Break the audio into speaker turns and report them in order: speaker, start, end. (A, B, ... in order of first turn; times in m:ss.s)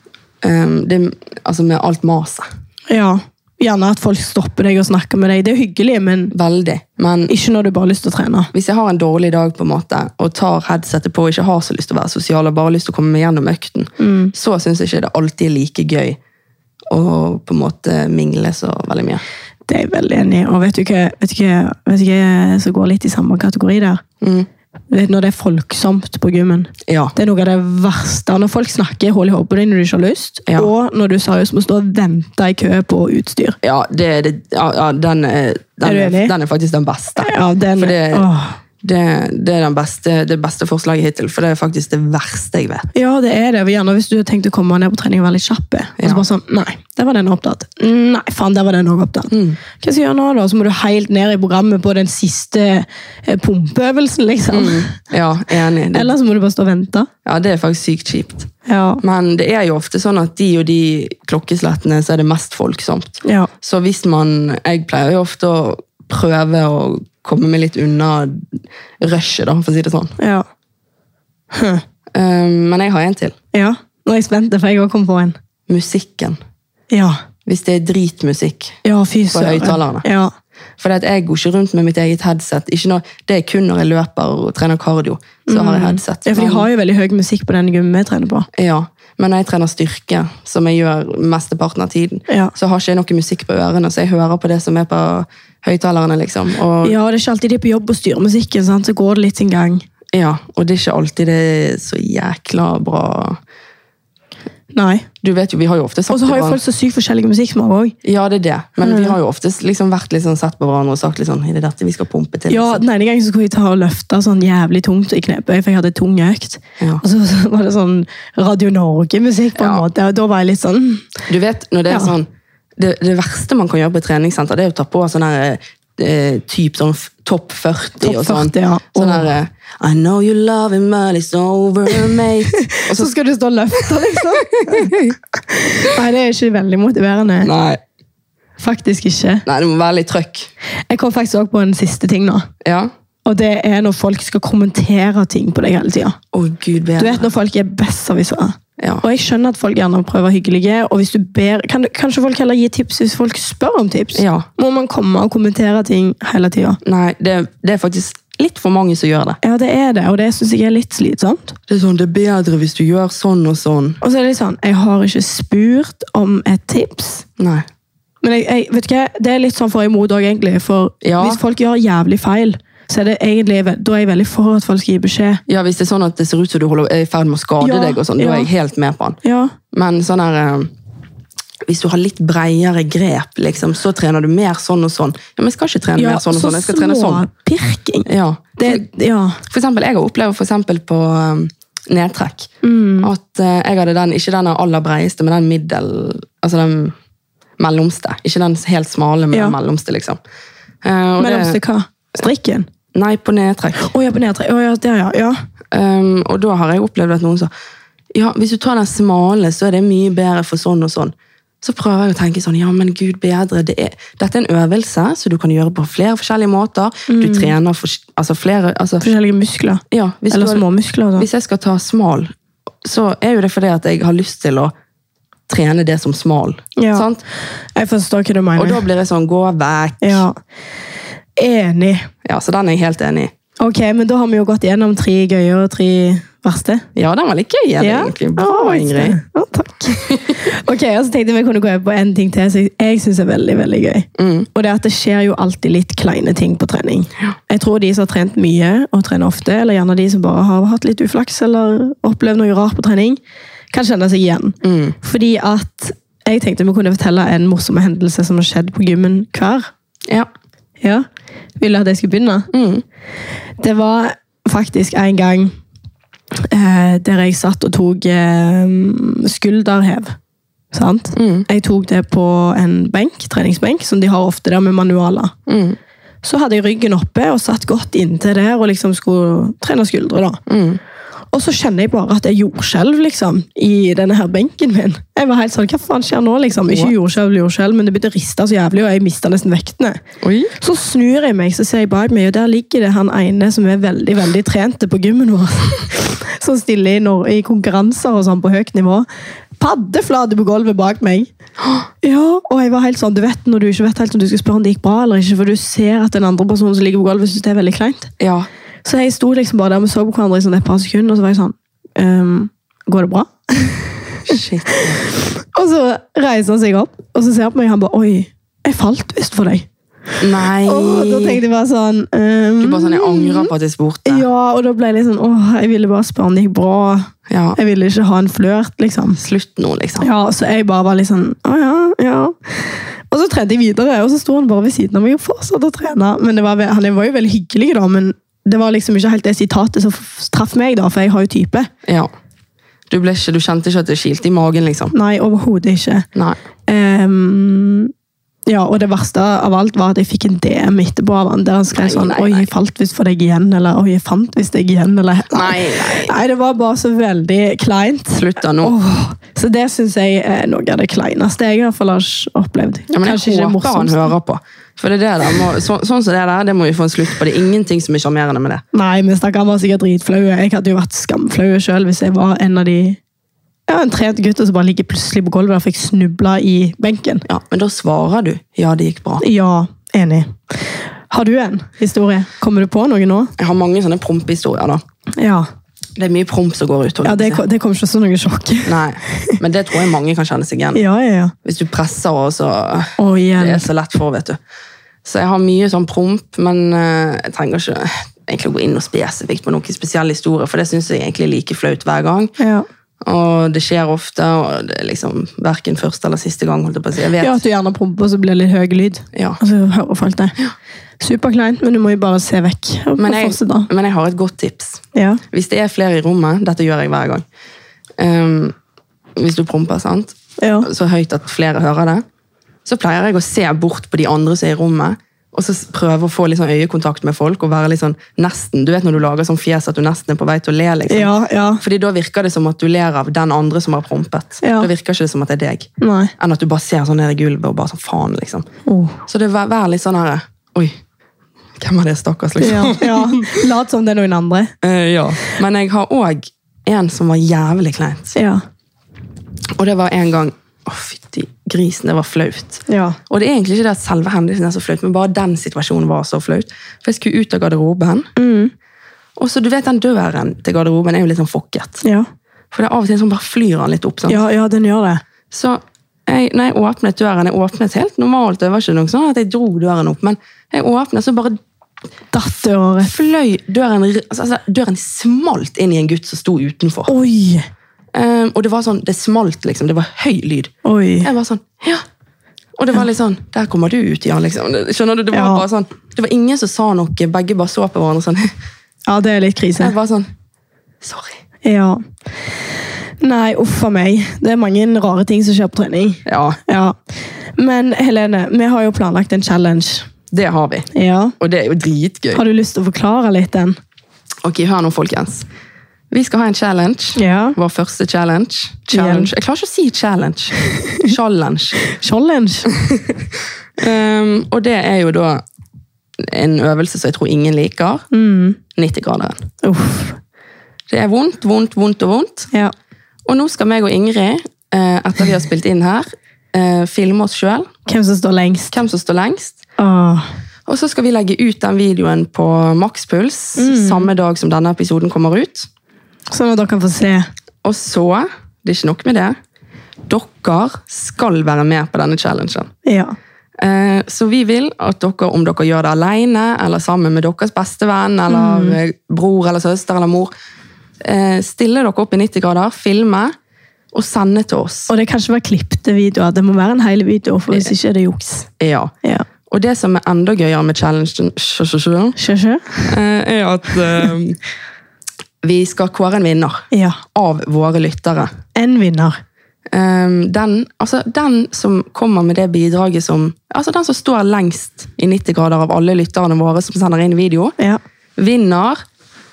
0:00.4-0:02.4 A
0:02.9-0:06.3 B
0:06.3-0:07.3 A
0:07.3-0:08.5 B
0:08.5-0:16.2 A
0:14.0-0:14.3 B
0:16.9-0:19.2 A
0:19.7-0:24.0 B
0:24.2-0:24.5 A
0:24.9-0:33.6 B
0:26.9-0:27.1 A
0:33.6-0:38.3 A
0:35.8-0:36.3 B
0:37.2-0:38.6 B
0:38.8-0:42.9 A
0:42.9-0:55.0 B
0:46.0-0:46.2 A
0:49.3-0:49.6 A
0:54.5-0:56.1 A
0:55.9-0:57.1 B
0:57.2-0:58.5 A
0:58.7-0:59.0 B
0:59.0-1:10.2 A
1:03.2-1:03.5 B
1:10.2-1:10.4 B
1:11.5-1:11.8 B
1:12.1-1:13.4 A
1:13.5-1:15.4 B
1:15.7-1:16.4 A
1:16.9-1:17.2 B
1:17.5-1:18.8 A
1:18.8-1:20.3 B
1:19.3-1:20.0 A
1:20.8-1:26.7 A
1:25.5-1:28.5 B
1:28.5-1:37.0 A
1:32.3-1:32.5 B
1:36.8-1:39.9 B
1:40.1-1:43.4 A
1:44.7-1:45.1 B
1:45.2-1:46.6 A
1:46.1-1:48.0 B
1:48.0-1:52.8 A
1:48.8-1:49.2 B
1:52.5-2:01.1 B
1:59.6-1:59.9 A
2:01.3-2:13.1 A
2:08.0-2:09.3 B
2:12.5-2:17.5 B
2:13.8-2:15.2 A
2:17.4-2:17.8 A
2:18.6-2:19.4 B
2:19.5-2:20.5 A
2:20.9-2:22.5 B
2:22.6-2:22.9 A
2:23.2-2:26.2 B
2:26.3-2:27.3 A
2:27.0-2:36.8 B
2:28.8-2:29.0 A
2:34.2-2:34.5 A
2:36.8-2:39.4 A
2:39.4-2:41.6 B
2:41.7-2:44.0 A
2:44.0-2:47.3 B
2:47.4-2:47.6 A
2:48.2-2:55.4 B
2:51.0-2:51.4 A
2:55.5-2:59.2 A
2:57.6-2:58.5 B
2:59.2-2:59.6 B
2:59.7-3:00.7 A
3:01.6-3:07.2 A
3:06.0-3:09.4 B
3:08.1-3:08.8 A
3:09.4-3:17.0 A
3:12.6-3:13.1 B
3:17.6-3:20.2 A
3:20.8-3:21.6 A
3:21.2-3:22.7 B
3:22.9-3:23.9 A
3:23.8-3:25.4 B
3:25.7-3:27.5 A
3:28.1-3:39.0 A
3:37.1-3:37.5 B
3:39.0-3:41.3 B
3:39.9-3:40.6 A
3:41.2-3:42.3 A
3:42.8-3:44.7 A
3:45.5-3:47.2 A
3:46.8-3:47.1 B
3:47.8-3:48.8 B
3:48.6-3:50.2 A
3:50.0-3:50.4 B
3:51.4-3:52.1 B
3:52.2-3:53.3 A
3:53.6-3:56.9 B
3:57.0-3:59.2 A
3:57.8-4:13.2 B
3:59.9-4:00.3 A
4:04.2-4:04.5 A
4:13.7-4:19.7 B
4:14.6-4:15.0 A
4:20.8-4:21.1 B
4:21.6-4:22.5 B
4:22.5-4:22.8 A
4:23.6-4:25.6 B
4:26.5-4:30.2 B
4:30.7-4:35.3 B
4:31.1-4:31.5 A
4:35.5-4:35.8 A
4:36.2-4:40.4 B
4:40.5-4:40.8 A
4:41.3-4:50.0 B
4:50.2-4:50.5 A
4:50.6-4:59.1 B
4:59.6-5:01.3 B
5:01.6-5:01.9 A
5:02.0-5:08.1 B
5:08.2-5:08.5 A
5:08.8-5:19.7 B
5:14.3-5:15.0 A
5:20.2-5:21.4 A
5:20.6-5:23.5 B
5:22.6-5:24.3 A
5:24.1-5:29.2 B
5:27.3-5:27.6 A
5:29.2-5:30.1 A
5:30.0-5:41.7 B
5:41.8-5:42.1 A
5:42.9-5:44.9 A
5:44.9-5:46.1 B
5:46.7-5:47.9 B
5:48.5-6:04.1 B
5:51.7-5:52.5 A
5:55.3-5:56.2 A
5:58.1-5:58.7 A
6:02.9-6:08.6 A
6:08.7-6:13.0 B
6:13.7-6:17.2 B
6:17.3-6:19.2 A
6:19.2-6:23.3 B
6:23.4-6:24.8 A
6:25.2-6:25.5 B
6:26.0-6:27.4 A
6:27.0-6:29.4 B
6:28.7-6:30.8 A
6:30.7-6:31.3 B
6:31.4-6:34.4 A
6:33.0-6:33.7 B
6:35.0-6:42.3 A
6:42.4-6:42.6 B
6:43.0-6:47.4 A
6:47.2-6:50.4 B
6:49.1-6:49.4 A
6:51.0-6:53.7 B
6:53.0-6:57.2 A
6:54.9-6:55.2 B
6:58.0-6:58.6 A
6:59.2-7:02.0 A
7:00.4-7:00.7 B
7:02.6-7:18.5 A
7:10.9-7:11.6 B
7:14.4-7:14.7 B
7:15.8-7:16.1 B
7:18.7-7:19.0 B
7:19.1-7:20.7 A
7:21.6-7:23.5 A
7:22.4-7:24.5 B
7:24.6-7:28.2 A
7:28.1-7:28.4 B
7:29.6-7:38.1 A
7:32.7-7:33.0 B
7:38.2-7:38.5 B
7:39.2-7:41.8 A
7:42.5-7:44.2 A
7:44.1-7:45.0 B
7:45.3-7:51.4 A
7:52.1-7:52.9 B
7:52.8-7:56.9 A
7:56.9-7:57.5 B
7:57.9-8:01.8 A
8:00.6-8:01.1 B
8:02.6-8:08.3 A
8:05.1-8:05.4 B
8:08.9-8:09.7 B
8:09.6-8:10.1 A
8:10.8-8:11.2 A
8:11.4-8:11.8 B
8:13.0-8:16.8 B
8:16.1-8:16.4 A
8:17.4-8:19.9 B
8:20.1-8:20.7 A
8:20.7-8:21.1 B
8:21.2-8:22.2 A
8:22.1-8:23.6 B
8:24.2-8:25.3 A
8:25.9-8:31.6 A
8:27.0-8:27.4 B
8:28.7-8:29.1 B
8:31.6-8:32.5 B
8:33.6-8:35.2 A
8:36.0-8:37.8 A
8:37.9-8:38.4 B
8:38.6-8:39.3 A
8:39.4-8:40.0 B
8:40.7-8:42.3 A
8:43.1-8:47.5 A
8:47.7-8:48.6 B
8:48.5-8:49.4 A
8:49.6-8:50.1 B
8:50.5-8:55.5 A
8:53.4-8:53.9 B
8:56.1-8:57.1 B
8:57.4-8:59.2 A
8:59.9-9:02.5 A
9:02.6-9:03.0 B
9:03.4-9:10.1 A
9:08.1-9:08.6 B
9:10.8-9:13.2 A
9:13.7-9:14.7 A
9:14.7-9:18.3 B
9:18.4-9:18.7 A
9:19.3-9:22.0 A
9:22.0-9:22.7 B
9:22.6-9:24.2 A
9:25.2-9:28.1 A
9:26.5-9:26.8 B
9:28.3-9:29.0 B
9:29.5-9:37.4 A
9:38.0-9:38.6 A